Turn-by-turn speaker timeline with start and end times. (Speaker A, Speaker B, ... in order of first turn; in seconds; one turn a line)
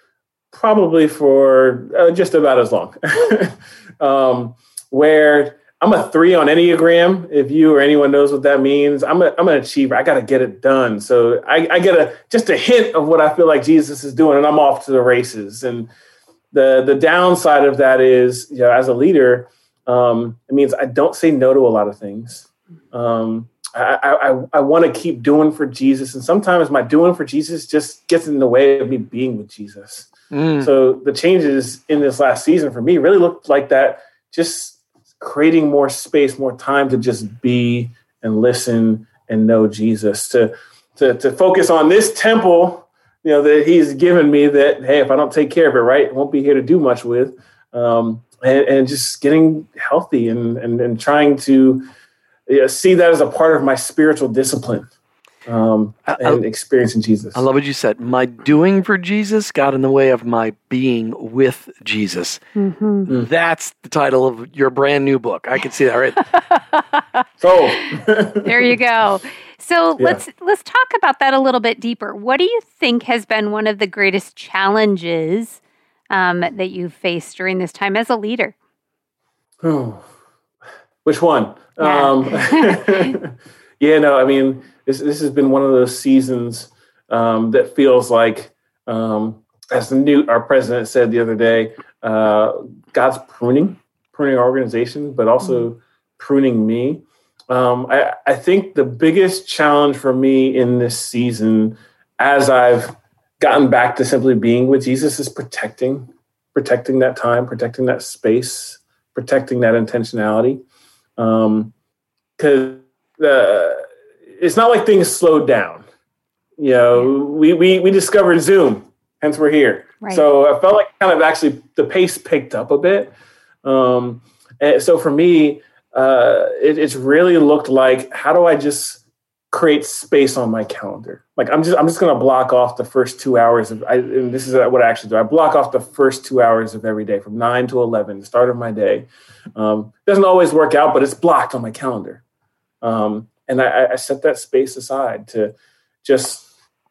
Speaker A: 0.5-15.9
Speaker A: 16.5-51.9
Speaker B: 30.3-30.7
Speaker A: 52.5-54.9
Speaker A: 55.5-57.4
Speaker B: 56.1-56.4
Speaker B: 57.3-62.4
Speaker C: 62.5-63.1
Speaker B: 63.1-66.2
Speaker A: 67.4-68.7
Speaker C: 68.0-75.6
Speaker C: 76.1-78.5
Speaker A: 79.6-80.0
Speaker A: 81.0-110.6
Speaker C: 81.8-83.1
Speaker A: 111.2-111.7
Speaker A: 112.4-113.8
Speaker A: 114.4-115.8
Speaker A: 116.6-123.1
Speaker A: 123.6-142.2
Speaker A: 142.8-146.5